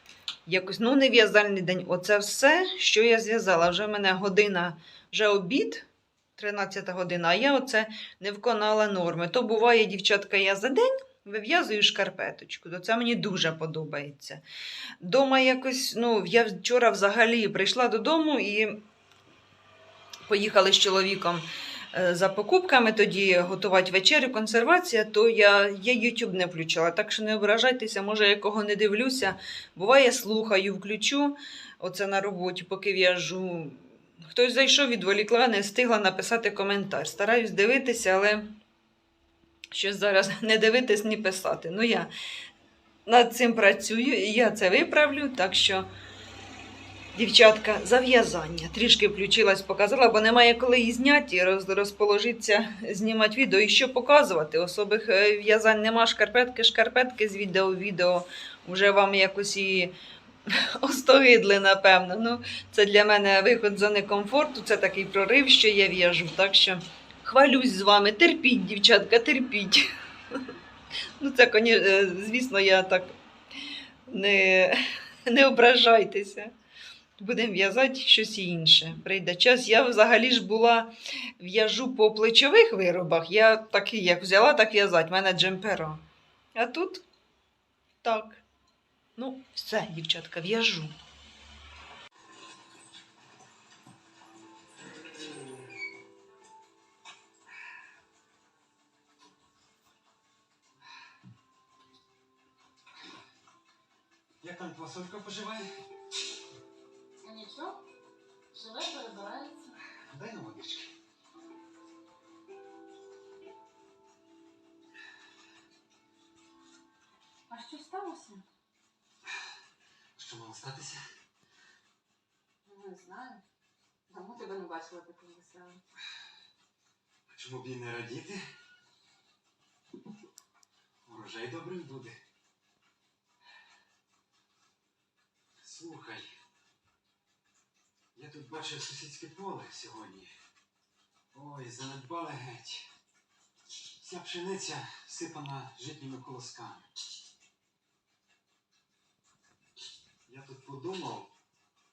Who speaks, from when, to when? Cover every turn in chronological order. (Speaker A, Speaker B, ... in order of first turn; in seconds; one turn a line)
Speaker A: 0.5-14.4
Speaker A: 15.0-18.8
Speaker A: 20.3-38.5
Speaker A: 39.7-42.1
Speaker A: 43.1-45.9
Speaker A: 47.1-59.9
Speaker A: 60.5-70.5
Speaker A: 71.2-73.2
Speaker A: 74.1-76.5
Speaker A: 77.2-86.0
Speaker A: 86.5-87.0
Speaker A: 88.0-88.5
Speaker A: 89.2-91.0
Speaker B: 104.4-105.7
Speaker C: 107.2-107.8
Speaker C: 108.5-109.7
Speaker B: 110.1-110.9
Speaker C: 117.5-118.4
Speaker B: 120.2-121.0
Speaker C: 122.7-123.4
Speaker C: 124.1-125.8
Speaker B: 127.3-128.4
Speaker B: 131.1-132.2
Speaker B: 135.6-136.3
Speaker B: 138.2-140.3
Speaker B: 141.3-142.9
Speaker B: 144.0-146.9
Speaker B: 150.3-151.3